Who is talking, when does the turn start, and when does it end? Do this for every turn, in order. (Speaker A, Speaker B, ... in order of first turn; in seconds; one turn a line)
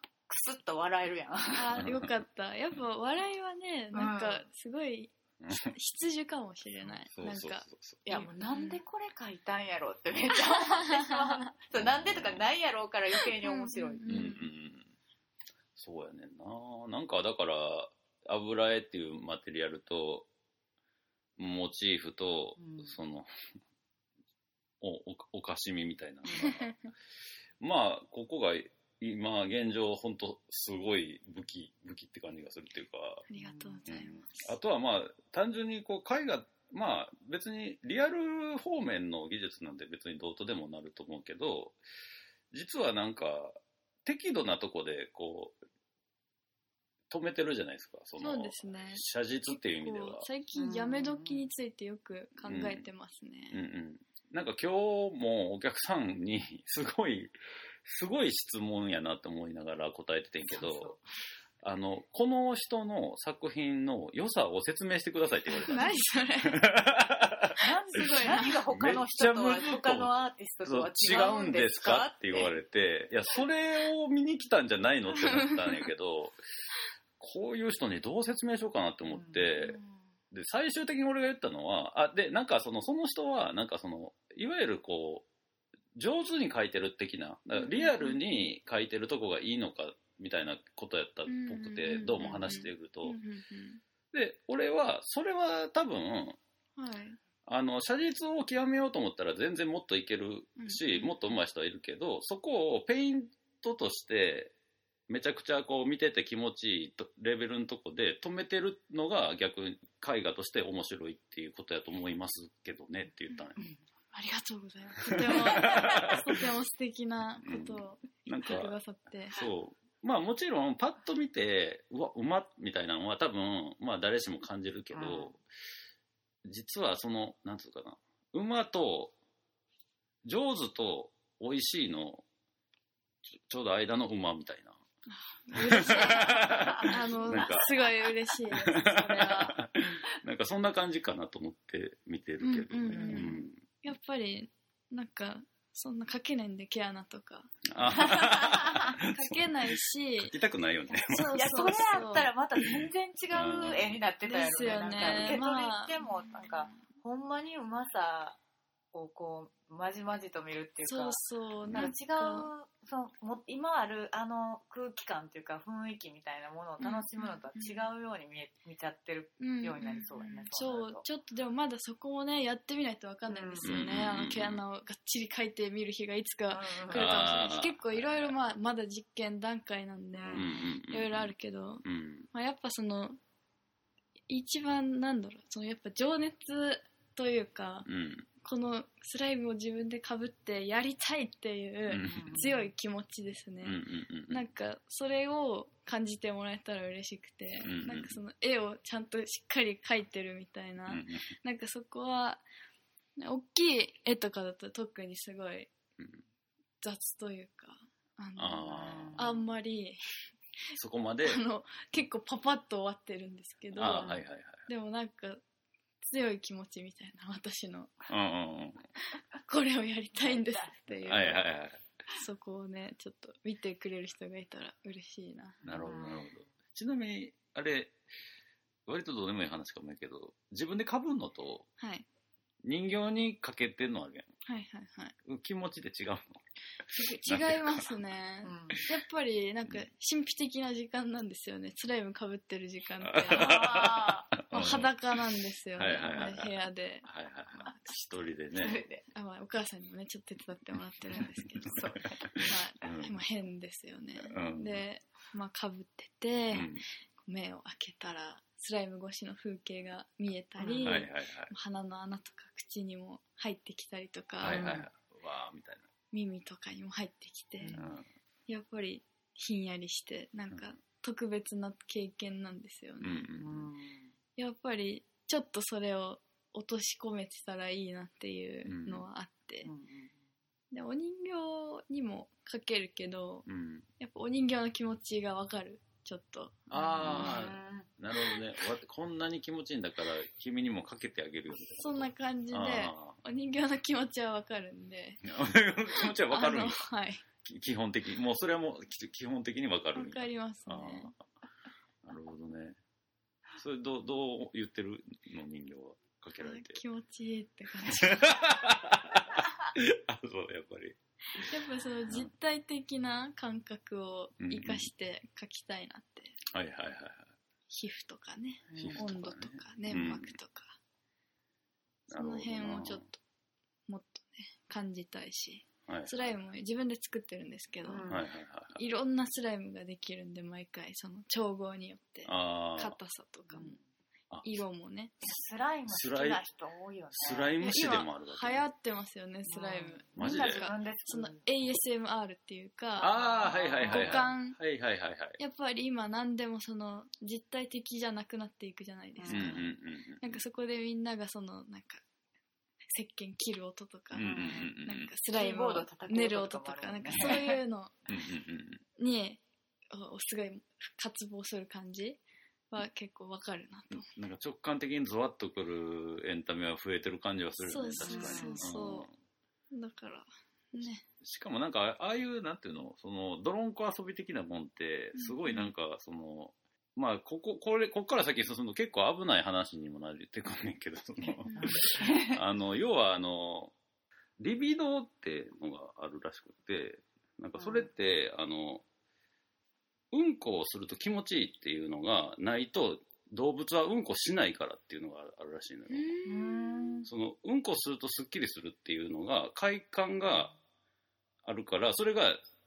Speaker A: 0.3-1.8
Speaker B: 1.5-8.8
Speaker C: 1.8-2.1
Speaker A: 3.9-4.5
Speaker C: 5.4-5.7
Speaker C: 7.0-8.0
Speaker A: 8.1-14.0
Speaker C: 11.8-12.5
Speaker B: 13.4-14.4
Speaker C: 14.1-14.9
Speaker C: 15.8-20.3
Speaker C: 21.4-23.3
Speaker A: 22.6-22.9
Speaker C: 24.8-26.8
Speaker C: 27.6-33.2
Speaker B: 33.3-34.5
Speaker A: 33.4-33.8
Speaker C: 33.9-41.8
Speaker C: 42.5-45.6
Speaker C: 47.1-50.3
Speaker B: 48.2-49.0
Speaker B: 49.8-53.6
Speaker A: 50.5-51.4
Speaker C: 52.4-52.9
Speaker C: 53.5-61.0
Speaker A: 60.5-61.0
Speaker C: 61.6-70.1
Speaker B: 65.5-66.7
Speaker A: 67.6-72.5
Speaker B: 67.9-68.6
Speaker C: 70.6-76.4
Speaker B: 75.1-75.8
Speaker C: 77.2-79.8
Speaker A: 79.1-79.5
Speaker B: 79.6-80.0
Speaker C: 80.3-85.2
Speaker C: 85.9-93.2
Speaker B: 87.5-88.2
Speaker B: 91.3-93.8
Speaker C: 94.1-96.4
Speaker B: 96.8-97.2
Speaker C: 97.5-104.5
Speaker B: 100.6-101.1
Speaker C: 105.1-113.6
Speaker B: 114.1-119.4
Speaker C: 115.1-116.4
Speaker A: 115.5-115.9
Speaker C: 117.4-118.7
Speaker C: 119.3-125.4
Speaker A: 124.9-125.3
Speaker C: 126.4-129.1
Speaker C: 130.2-132.2
Speaker C: 133.3-134.8
Speaker B: 135.1-139.6
Speaker C: 135.5-137.7
Speaker A: 136.2-137.5
Speaker C: 138.5-143.6
Speaker B: 142.4-148.2
Speaker A: 142.9-143.3
Speaker C: 147.7-149.5
Speaker A: 148.2-148.9
Speaker B: 149.0-150.3
Speaker C: 150.2-152.1
Speaker B: 151.1-152.3
Speaker A: 151.3-158.4
Speaker C: 152.6-154.0
Speaker B: 154.2-156.8
Speaker C: 154.7-155.4
Speaker A: 158.9-161.2
Speaker B: 160.8-162.5
Speaker C: 161.6-161.9
Speaker A: 161.7-171.0
Speaker B: 166.8-167.9
Speaker B: 169.4-183.2
Speaker A: 173.3-173.8
Speaker C: 173.6-174.6
Speaker A: 176.5-177.3
Speaker C: 176.9-178.3
Speaker A: 180.2-180.5
Speaker C: 180.3-181.3
Speaker C: 181.8-182.3
Speaker B: 184.3-187.9
Speaker C: 187.8-188.2
Speaker B: 188.4-202.4
Speaker C: 191.9-192.4
Speaker A: 192.1-192.6
Speaker C: 193.6-194.4
Speaker C: 197.6-198.2
Speaker C: 200.9-201.2
Speaker B: 203.2-205.7
Speaker B: 206.8-210.0
Speaker C: 208.4-209.2
Speaker A: 208.7-209.4
Speaker C: 210.8-211.4
Speaker B: 211.2-214.1
Speaker C: 213.7-214.7
Speaker A: 213.8-214.2
Speaker B: 214.7-215.4
Speaker B: 216.0-217.9
Speaker C: 218.1-218.8
Speaker B: 219.4-221.4
Speaker A: 220.2-221.3
Speaker C: 221.1-221.8
Speaker B: 222.1-225.6
Speaker C: 225.6-228.0
Speaker A: 225.7-226.3
Speaker C: 228.8-231.7
Speaker B: 231.8-232.1
Speaker C: 232.6-234.3
Speaker B: 234.4-235.1
Speaker C: 235.2-236.4
Speaker B: 236.9-243.6
Speaker C: 237.3-237.8
Speaker A: 238.4-238.8
Speaker C: 243.0-244.9
Speaker A: 243.3-244.3
Speaker B: 244.5-248.0
Speaker C: 245.7-248.8
Speaker A: 248.6-249.0
Speaker B: 249.1-264.7
Speaker A: 251.1-252.4
Speaker C: 252.3-253.2
Speaker C: 254.2-254.8
Speaker C: 256.5-256.8
Speaker A: 260.6-261.0
Speaker C: 260.8-261.5
Speaker C: 264.4-265.9
Speaker A: 264.4-264.9
Speaker B: 266.1-267.8
Speaker A: 267.6-267.9
Speaker C: 267.7-268.0
Speaker B: 268.5-273.3
Speaker C: 273.0-273.7
Speaker A: 273.4-274.1
Speaker B: 274.4-279.7
Speaker C: 278.6-279.1
Speaker A: 279.6-280.1
Speaker B: 280.7-283.4
Speaker C: 283.5-283.9
Speaker B: 284.0-287.4
Speaker C: 286.7-293.2
Speaker A: 287.0-287.9
Speaker B: 291.8-295.2
Speaker C: 295.2-296.8
Speaker B: 296.3-297.2
Speaker C: 297.4-301.2
Speaker B: 299.9-301.1
Speaker C: 302.0-302.8
Speaker C: 303.6-306.8
Speaker B: 306.4-308.4
Speaker C: 307.9-311.4
Speaker B: 311.3-316.4
Speaker C: 314.4-314.9
Speaker C: 316.5-317.3
Speaker B: 317.7-320.8
Speaker A: 318.7-319.0
Speaker C: 318.8-320.3
Speaker B: 322.1-323.2
Speaker C: 322.1-323.0
Speaker B: 323.9-328.1
Speaker C: 325.9-326.3
Speaker A: 327.8-328.2
Speaker C: 328.1-328.8
Speaker B: 328.8-333.8
Speaker C: 332.2-332.9
Speaker A: 333.5-333.8
Speaker B: 334.4-335.1
Speaker A: 335.2-337.6
Speaker C: 335.9-336.4
Speaker C: 337.1-338.6
Speaker B: 337.6-343.1
Speaker A: 339.5-341.4
Speaker C: 340.2-340.7
Speaker A: 343.0-344.3
Speaker C: 343.0-345.4
Speaker B: 343.8-344.6
Speaker B: 345.4-352.0
Speaker A: 349.2-349.6
Speaker C: 349.3-350.4
Speaker B: 352.9-357.9
Speaker C: 354.1-355.1
Speaker A: 354.2-354.7
Speaker A: 355.3-357.6
Speaker C: 357.1-357.4
Speaker C: 358.1-358.8
Speaker B: 359.0-364.1
Speaker C: 363.9-369.1
Speaker B: 367.6-369.1
Speaker A: 368.0-368.6
Speaker B: 369.7-371.0
Speaker C: 371.2-383.7
Speaker B: 375.1-375.7
Speaker B: 381.4-381.8
Speaker A: 381.6-382.4
Speaker C: 384.4-388.8
Speaker A: 387.6-387.8
Speaker C: 390.1-396.1
Speaker B: 395.9-397.0
Speaker A: 396.2-397.1
Speaker C: 397.1-400.5
Speaker C: 401.4-402.4